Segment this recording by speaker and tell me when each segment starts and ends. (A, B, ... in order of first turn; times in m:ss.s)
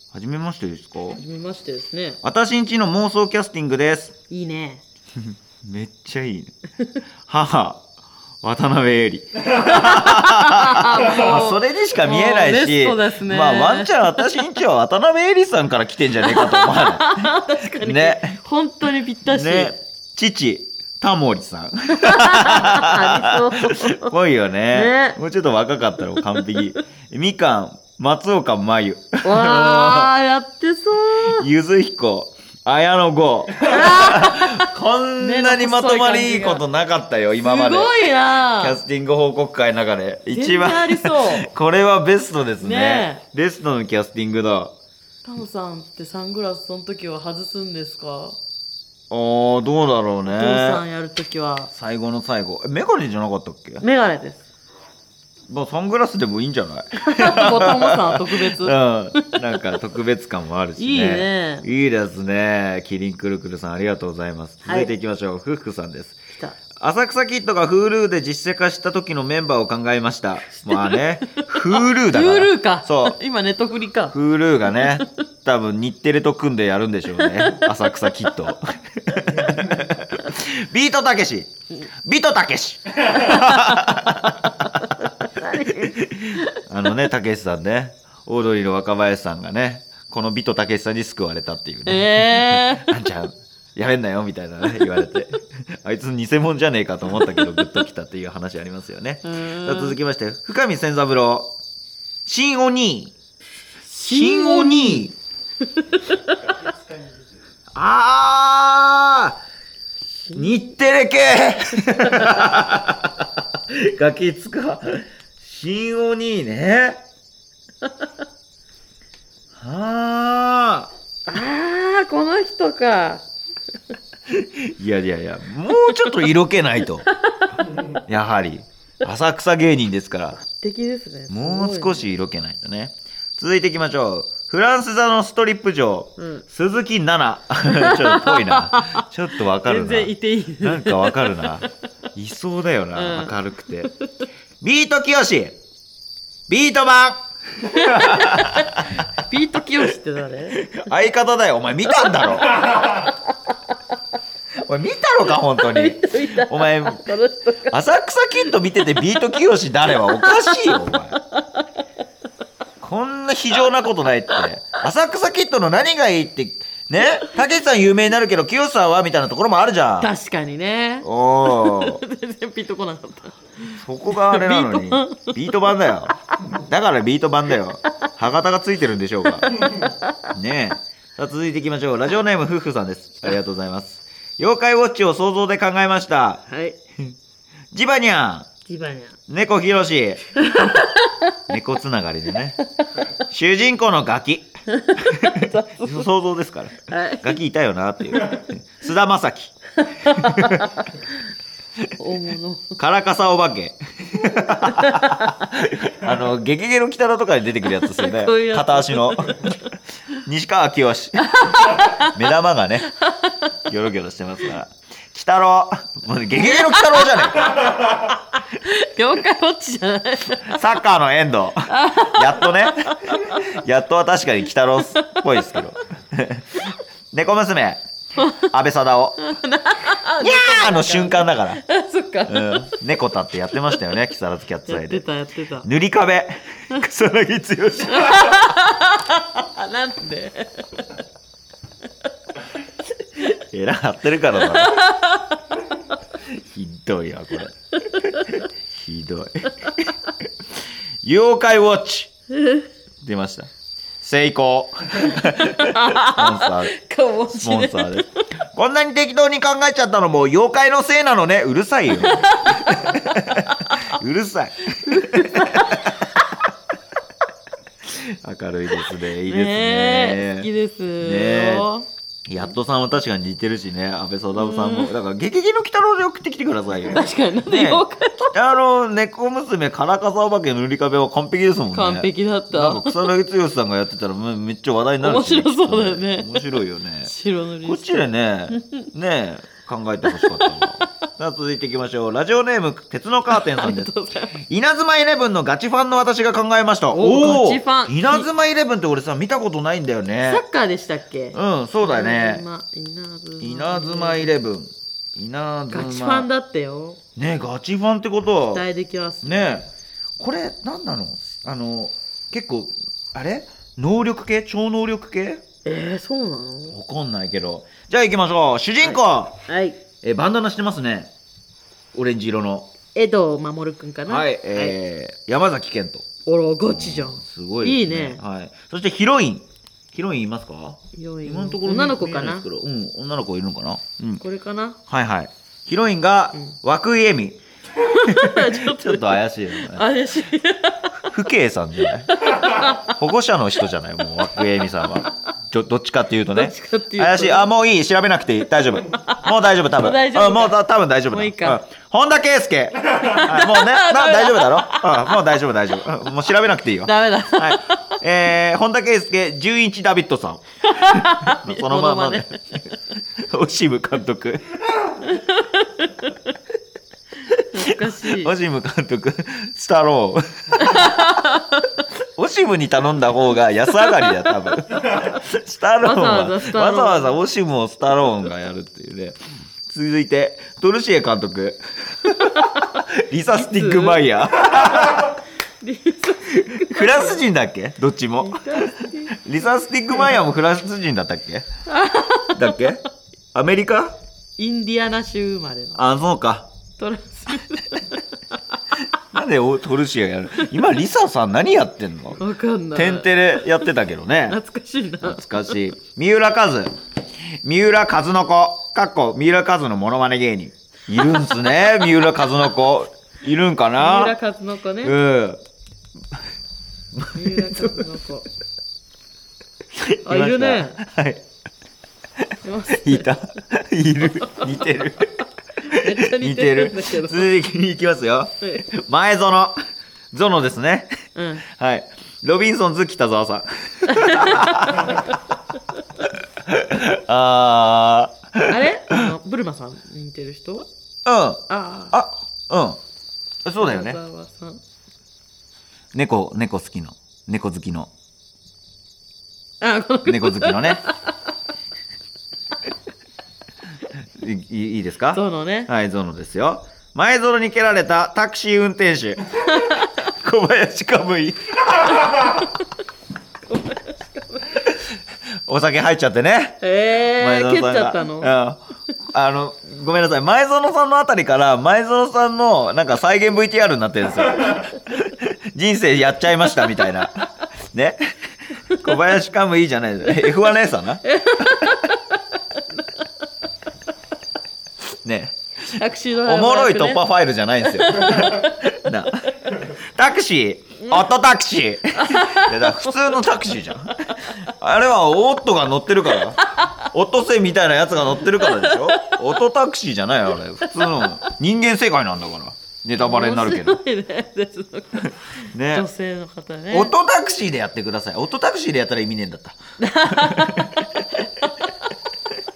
0:00.1-0:01.2 A
0:01.2-0:02.2 B
0:02.2-0:04.1 A
0:04.3-0:04.8 B
0:05.3-0:06.5 A
0:07.3-0:07.8 A
0:08.4-0:18.4 A
0:09.5-0:14.4 B
0:16.2-0:19.7 B
0:19.2-0:30.1 A
0:22.0-0:24.1 B
0:24.7-0:25.2 B
0:26.2-0:26.8 B
0:29.2-0:31.5 B
0:31.3-0:44.7 A
0:33.6-0:34.6 B
0:35.2-0:36.6 B
0:37.3-0:38.8 B
0:40.2-0:41.5 B
0:42.6-0:43.2 B
0:45.2-0:48.4 B
0:49.1-0:50.8 A
0:50.3-0:51.7 B
0:51.7-0:53.8 A
0:53.8-0:54.4 B
0:55.5-1:06.2 A
0:57.0-0:59.8 B
1:00.8-1:01.7 B
1:06.8-1:13.2 A
1:10.6-1:14.1 B
1:14.1-1:21.5 A
1:14.7-1:15.2 B
1:17.1-1:18.1 B
1:19.3-1:19.6 B
1:22.0-1:41.5 A
1:23.1-1:23.9 B
1:25.0-1:26.5 B
1:31.8-1:33.0 B
1:37.2-1:37.5 B
1:39.2-1:40.0 B
1:42.2-1:43.1 A
1:43.9-1:45.1 B
1:44.0-1:45.1 A
1:45.7-1:46.6 B
1:47.7-1:49.4 A
1:50.3-1:50.7 B
1:50.3-1:57.0 A
1:52.0-1:52.5 B
1:59.6-2:00.9 A
2:01.2-2:03.2 B
2:04.3-2:07.1 A
2:05.9-2:06.2 B
2:07.1-2:08.0 B
2:07.8-2:10.4 A
2:10.6-2:12.1 B
2:11.3-2:23.9 A
2:17.7-2:21.6 B
2:22.9-2:24.0 B
2:24.6-2:25.6 A
2:26.5-2:29.1 A
2:27.6-2:30.7 B
2:30.5-2:33.1 A
2:32.0-2:33.3 B
2:34.6-2:37.1 A
2:35.4-2:37.8 B
2:37.6-2:41.2 A
2:39.9-2:41.6 B
2:42.8-2:50.1 A
2:50.0-2:55.8 B
2:51.0-2:52.0 A
2:53.8-2:59.7 A
2:59.4-3:00.2 B
3:00.3-3:06.4 A
3:06.5-3:06.8 B
3:07.7-3:08.5 A
3:08.6-3:09.1 B
3:09.3-3:10.2 A
3:10.4-3:11.3 B
3:11.5-3:12.6 A
3:13.2-3:20.7 A
3:14.7-3:16.1 B
3:16.9-3:17.4 B
3:19.9-3:21.2 B
3:22.0-3:22.8 B
3:22.8-3:29.6 A
3:24.6-3:25.3 B
3:27.8-3:29.6 B
3:30.2-3:32.9 A
3:31.2-3:32.2 B
3:33.0-3:33.4 B
3:33.6-3:37.8 A
3:36.4-3:40.6 B
3:40.3-3:49.4 A
3:41.7-3:43.4 B
3:48.2-3:48.5 B
3:49.2-3:52.8 B
3:50.2-3:51.6 A
3:52.3-3:55.0 A
3:54.7-3:55.7 B
3:55.6-3:58.4 A
3:57.9-4:01.0 B
4:03.3-4:04.9 A
4:04.4-4:05.4 B
4:06.3-4:10.1 A
4:08.0-4:08.3 B
4:11.0-4:12.1 A
4:13.0-4:13.5 A
4:14.0-4:16.7 A
4:15.1-4:18.0 B
4:17.3-4:26.2 A
4:21.9-4:23.8 B
4:24.8-4:26.2 B
4:27.8-4:30.5 A
4:28.8-4:31.9 B
4:31.0-4:31.7 A
4:32.3-4:47.1 A
4:34.3-4:34.9 B
4:36.9-4:38.3 B
4:41.7-4:43.1 B
4:45.0-4:48.8 B
4:47.6-5:00.4 A
4:50.1-4:50.9 B
4:53.3-4:54.4 B
4:56.9-4:58.3 B
5:00.2-5:04.3 B
5:01.3-5:02.4 A
5:03.4-5:06.3 A
5:05.7-5:07.0 B
5:07.2-5:08.6 A
5:08.5-5:09.6 B
5:09.2-5:15.4 A
5:15.6-5:16.8 B
5:16.7-5:19.4 A
5:18.8-5:19.8 B
5:20.0-5:21.1 A
5:21.9-5:22.7 A
5:22.9-5:24.8 B
5:24.1-5:26.0 A
5:26.2-5:28.2 B
5:26.7-5:34.2 A
5:30.9-5:32.5 B
5:34.2-5:34.8 B
5:34.9-5:37.4 A
5:37.8-5:41.1 B
5:37.9-5:39.9 A
5:41.0-6:04.6 A
5:41.8-5:43.0 B
5:46.3-5:47.5 B
5:48.9-5:51.6 B
5:53.0-5:55.2 B
5:56.8-5:58.0 B
6:00.7-6:02.6 B
6:04.9-6:06.3 B
6:07.3-6:11.2 A
6:07.5-6:08.3 B
6:10.6-6:11.6 B
6:12.2-6:25.2 A
6:13.8-6:15.0 B
6:15.8-6:17.2 B
6:22.2-6:22.6 B
6:23.3-6:25.1 B
6:25.6-6:27.2 B
6:26.3-6:31.5 A
6:28.2-6:29.2 B
6:31.7-6:32.7 B
6:32.3-6:34.0 A
6:34.4-6:35.8 B
6:35.8-6:36.5 A
6:36.8-6:38.4 B
6:39.0-6:42.2 A
6:40.4-6:40.6 B
6:42.2-6:43.7 B
6:42.7-6:44.4 A
6:44.3-6:45.6 B
6:45.0-6:46.7 A
6:47.4-6:54.2 A
6:51.0-6:51.9 B
6:53.8-6:54.9 B
6:54.8-6:55.4 A
6:56.9-6:57.8 A
6:57.1-6:58.3 B
6:59.7-7:01.2 A
7:00.0-7:00.8 B
7:02.4-7:03.1 B
7:02.7-7:09.6 A
7:04.2-7:04.8 B
7:05.7-7:07.3 B
7:10.1-7:15.0 A
7:11.1-7:11.4 B
7:13.9-7:15.1 B
7:16.4-7:19.0 A
7:18.5-7:20.7 B
7:21.0-7:22.8 A
7:21.5-7:22.0 B
7:23.4-7:24.0 A
7:23.6-7:24.6 B
7:25.9-7:27.9 A
7:29.6-7:31.1 B
7:30.0-7:30.8 A
7:34.2-7:42.3 A
7:35.1-7:35.7 B
7:39.5-7:39.9 B
7:41.8-7:42.6 B
7:43.5-7:44.6 B
7:45.4-7:46.6 A
7:46.6-7:48.3 B
7:47.1-7:48.6 A
7:49.1-8:01.8 A
8:01.0-8:03.0 B
8:05.0-8:23.8 A
8:05.8-8:07.0 B
8:07.6-8:09.6 B
8:11.9-8:14.3 B
8:16.3-8:16.7 B
8:18.3-8:19.2 B
8:20.8-8:21.1 B
8:23.0-8:26.9 B
8:25.5-8:25.9 A
8:26.7-8:31.1 A
8:29.8-8:31.8 B